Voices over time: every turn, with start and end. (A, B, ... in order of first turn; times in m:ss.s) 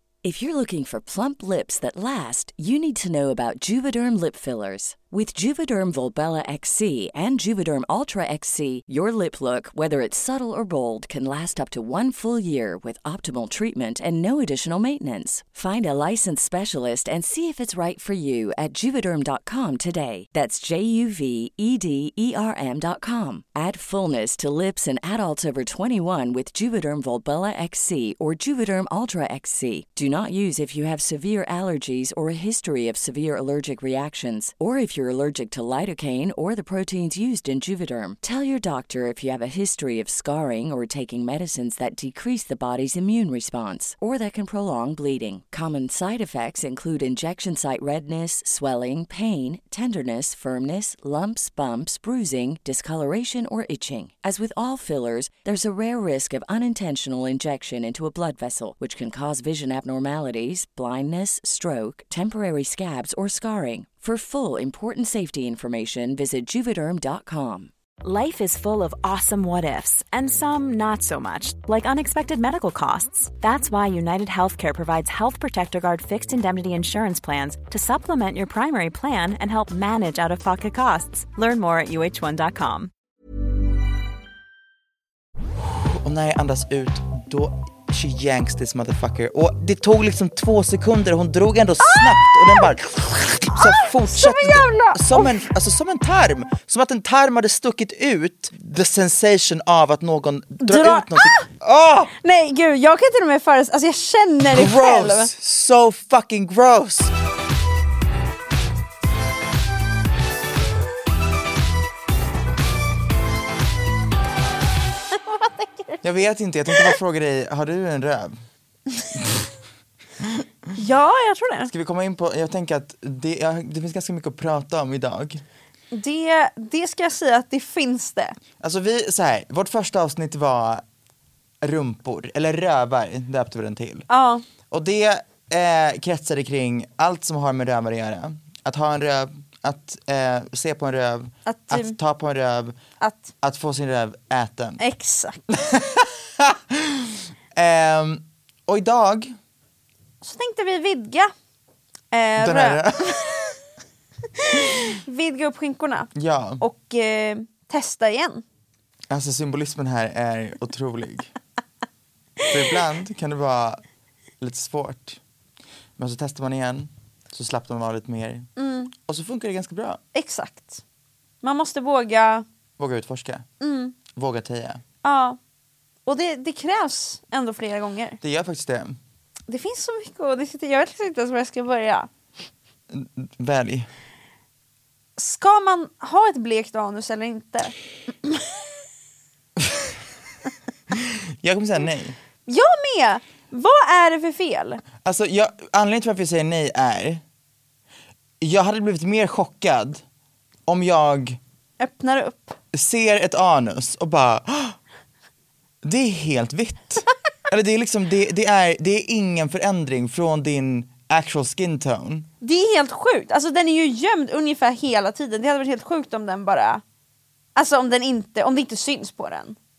0:00.2-1:07.7 A
1:08.0-1:22.9 B
1:25.8-1:42.1 C
1:31.8-1:32.7 D
1:33.5-1:35.4 D
1:40.6-1:41.5 D
1:42.2-1:45.3 D
1:44.5-1:47.1 C
1:55.1-1:56.0 D
1:56.0-1:58.4 C
1:59.1-1:59.5 C
2:00.8-2:01.7 D
2:01.7-2:05.4 C
2:05.9-2:08.4 D
2:08.6-2:10.8 C
2:11.6-2:14.1 C
2:14.1-2:14.4 D
2:14.7-2:22.8 C
2:21.5-2:22.0 D
2:23.0-2:23.3 D
2:23.4-2:24.8 C
2:24.8-2:25.4 D
2:25.5-2:29.4 C
2:30.2-2:31.3 D
2:32.1-2:32.8 D
2:32.4-2:33.5 C
2:34.4-2:38.4 D
2:36.2-2:36.6 C
2:39.1-2:41.3 C
2:42.5-2:43.8 C
2:44.4-2:45.2 C
2:46.0-2:50.0 C
2:48.6-2:48.9 D
2:50.1-2:50.8 D
2:51.4-2:52.4 D
2:52.8-2:53.5 C
2:53.6-2:54.0 D
2:54.1-2:54.8 C
2:55.0-2:55.4 D
2:56.1-2:58.2 D
2:58.2-2:59.0 C
2:59.5-3:02.1 D
3:02.9-3:03.9 C
3:05.2-3:07.7 D
3:09.6-3:10.0 C
3:10.9-3:12.2 C
3:12.5-3:14.8 D
3:15.0-3:17.2 C
3:18.4-3:20.0 C
3:20.7-3:21.4 C
3:21.8-3:22.6 D
3:22.7-3:24.8 C
3:25.8-3:32.3 C
3:32.4-3:36.8 D
3:37.6-3:39.6 D